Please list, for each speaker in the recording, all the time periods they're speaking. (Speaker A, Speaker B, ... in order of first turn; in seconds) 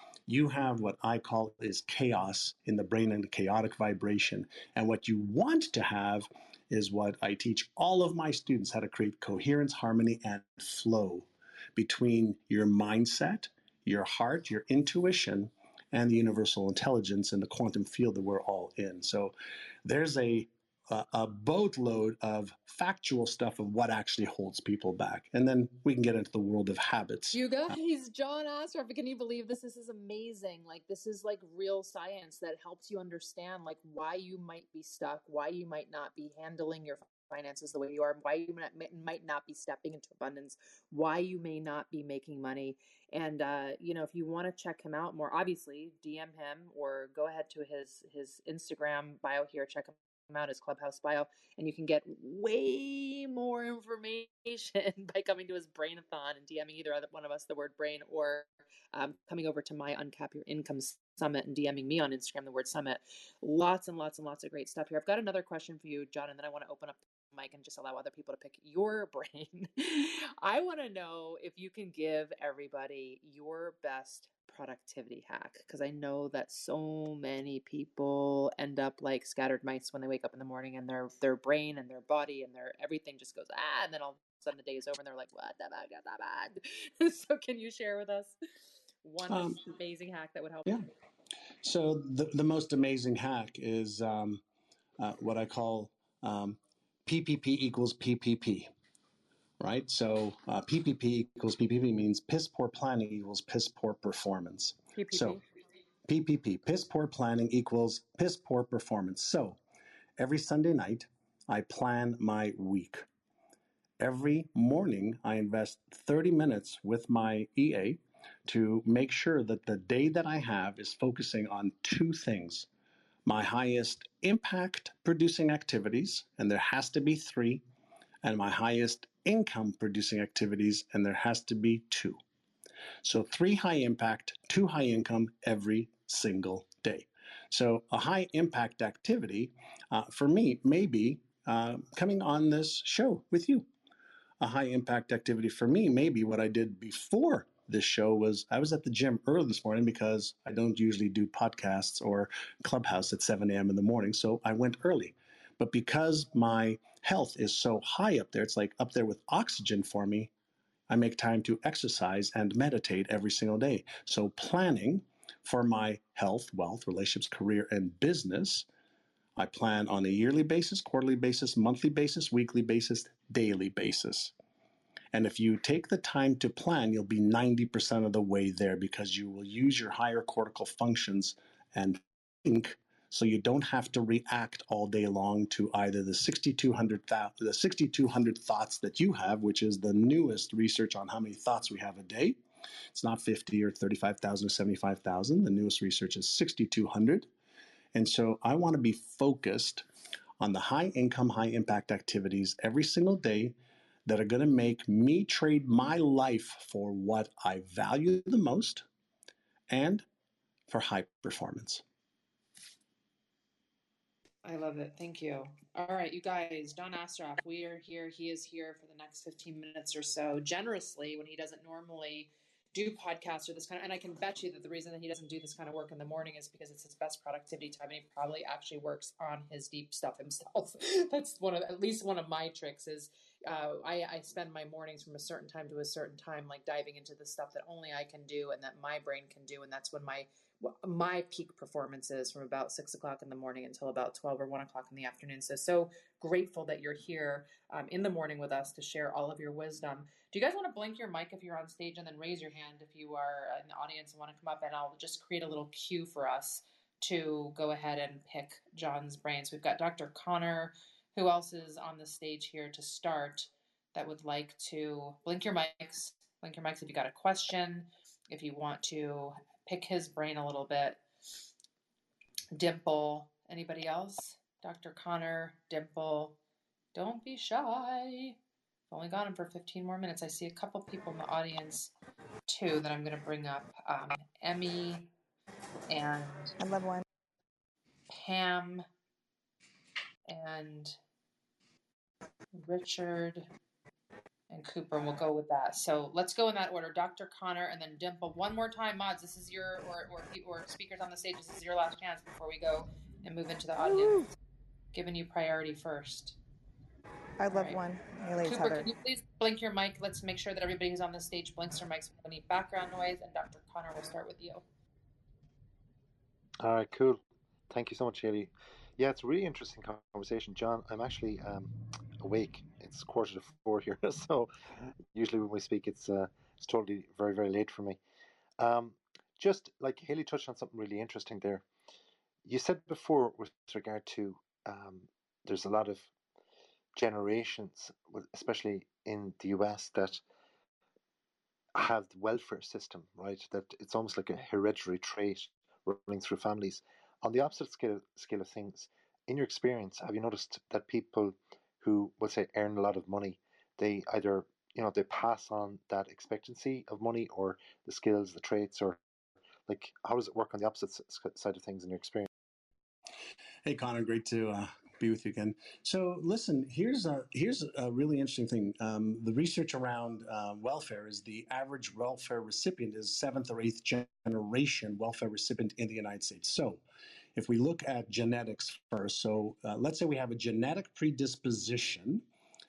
Speaker A: 0.3-27.4, 89.3-89.6, 91.6-94.4, 95.0-98.7, 99.6-105.4, 106.1-109.6, 110.2-113.1, 114.0-122.7, 123.2-127.6, 128.2-132.2, 133.0-143.7, 144.4-160.3, 160.9-168.7, 169.4-174.3, 175.1-192.4, 192.9-197.3, 197.9-199.9, 200.4-208.9, 209.7-210.1, 210.7-211.8, 363.6-376.8, 377.4-382.2
Speaker B: 27.3-88.4, 89.0-90.9, 105.0-105.4, 214.4-271.0, 272.5-276.4, 276.9-278.4, 278.9-281.9, 282.5-285.1, 285.9-286.6, 288.1-288.9, 290.3-291.0, 292.5-293.5, 294.5-304.2, 304.9-306.4, 307.5-307.8, 308.4-314.6
Speaker C: 286.6-287.0, 303.8-304.3, 307.4-308.9
Speaker D: 316.6-324.5, 325.1-328.0, 328.6-331.7, 332.4-336.1, 337.0-340.2, 341.8-359.0, 359.7-362.3